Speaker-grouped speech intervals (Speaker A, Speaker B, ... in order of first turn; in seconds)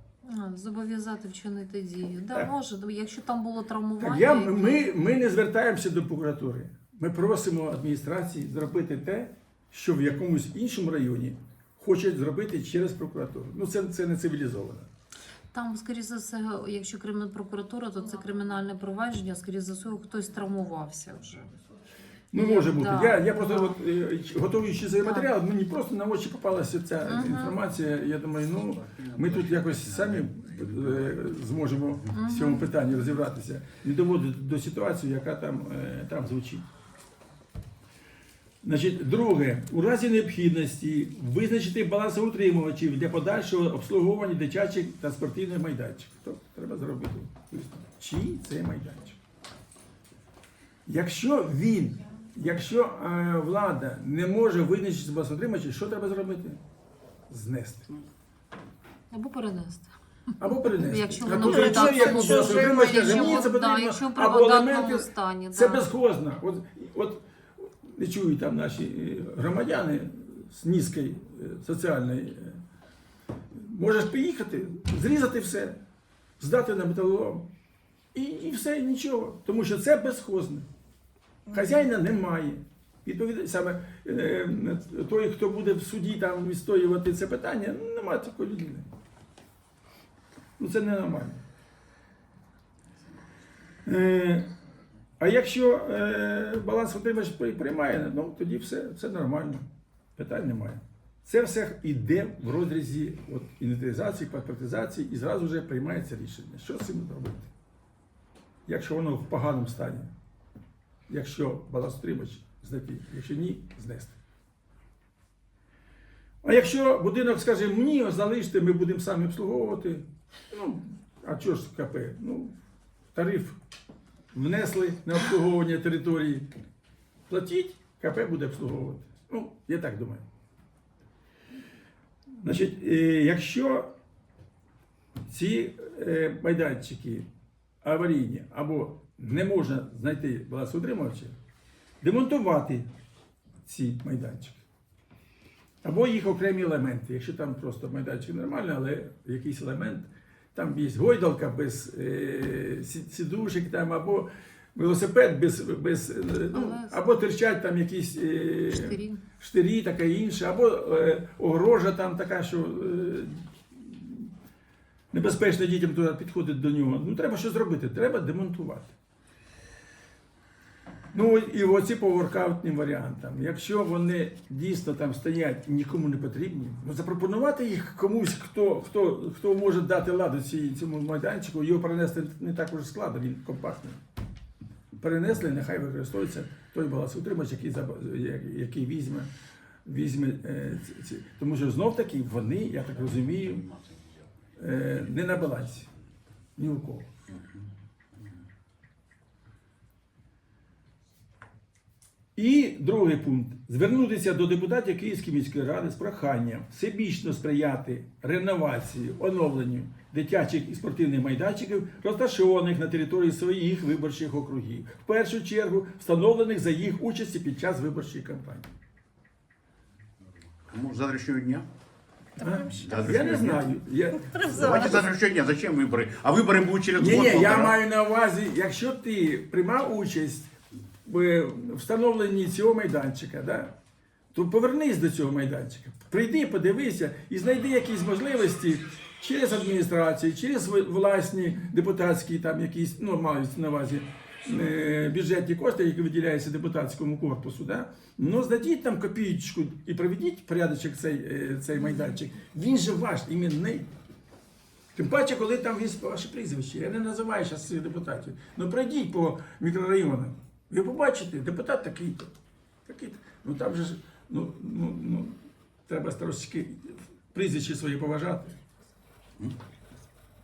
Speaker A: 0.2-4.9, 15.5-21.5, 22.3-23.8, 25.0-25.3, 27.0-27.6, 32.1-32.7, 59.1-59.9, 60.5-65.9, 156.5-157.0, 158.7-159.2, 222.4-222.9, 224.2-224.7
Speaker B: 4.0-14.9, 22.3-36.7, 38.6-49.2, 50.9-56.6, 57.3-57.9, 60.4-72.6, 73.5-75.8, 76.4-77.5, 78.1-80.7, 81.5-88.9, 90.6-91.4, 93.8-94.5, 95.2-107.5, 108.7-110.1, 111.1-114.2, 116.4-122.5, 123.1-123.6, 124.3-126.5, 127.3-130.2, 132.4-133.9, 135.2-137.3, 137.8-141.3, 142.0-142.9, 143.6-144.6, 145.8-164.3, 165.1-168.9, 171.1-184.0, 185.0-189.3, 189.8-193.7, 194.6-195.9, 196.6-197.1, 202.3-218.7, 222.4-225.1, 226.9-230.5, 231.0-233.7, 234.3-253.9, 254.9-262.3, 262.9-268.6
Speaker C: 28.9-30.1, 193.8-194.2, 220.7-221.7, 222.8-223.6, 224.4-227.8